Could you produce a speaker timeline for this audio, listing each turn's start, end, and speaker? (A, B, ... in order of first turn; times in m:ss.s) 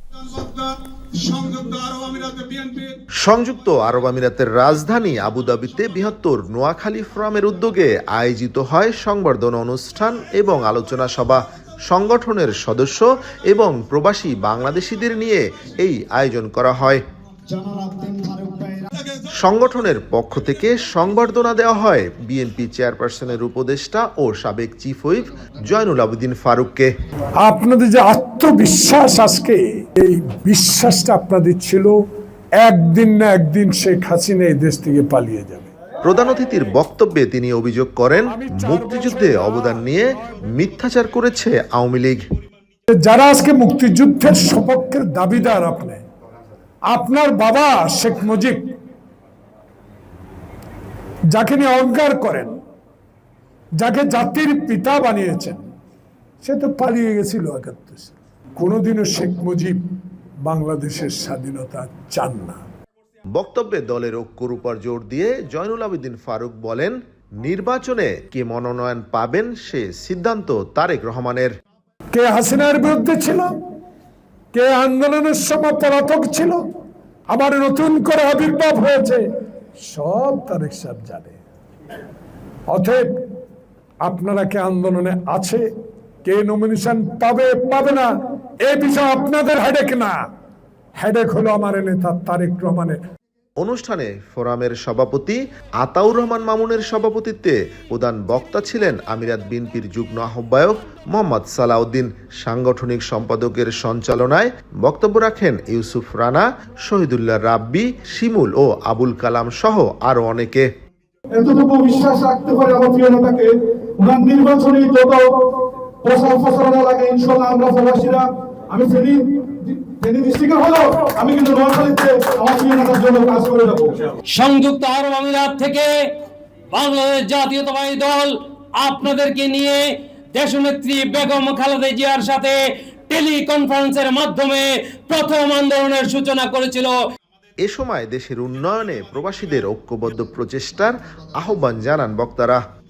0:00.2-0:03.0 A
0:03.2-0:17.0 B
0:17.5-0:19.2 A
0:19.3-0:26.9 B
0:27.4-0:32.0 C
0:32.6-0:35.7 C
0:36.0-0:42.2 B
0:38.3-0:39.7 C
0:42.9-0:46.0 C
0:46.9-0:48.7 C
0:51.3-0:52.5 C
0:53.8-0:55.6 C
0:56.4-0:59.8 C
1:00.5-1:02.6 C
1:03.3-1:11.5 B
1:12.1-1:13.5 C
1:14.5-1:16.6 C
1:17.3-1:19.2 C
1:19.9-1:21.4 C
1:22.7-1:23.1 C
1:24.0-1:25.6 C
1:26.2-1:28.1 C
1:28.6-1:30.2 C
1:31.0-1:33.0 C
1:33.6-1:50.7 B
1:51.3-1:55.2 A
1:56.0-2:04.1 A
2:04.3-2:05.9 D
2:06.7-2:17.0 D
2:17.6-2:22.6 B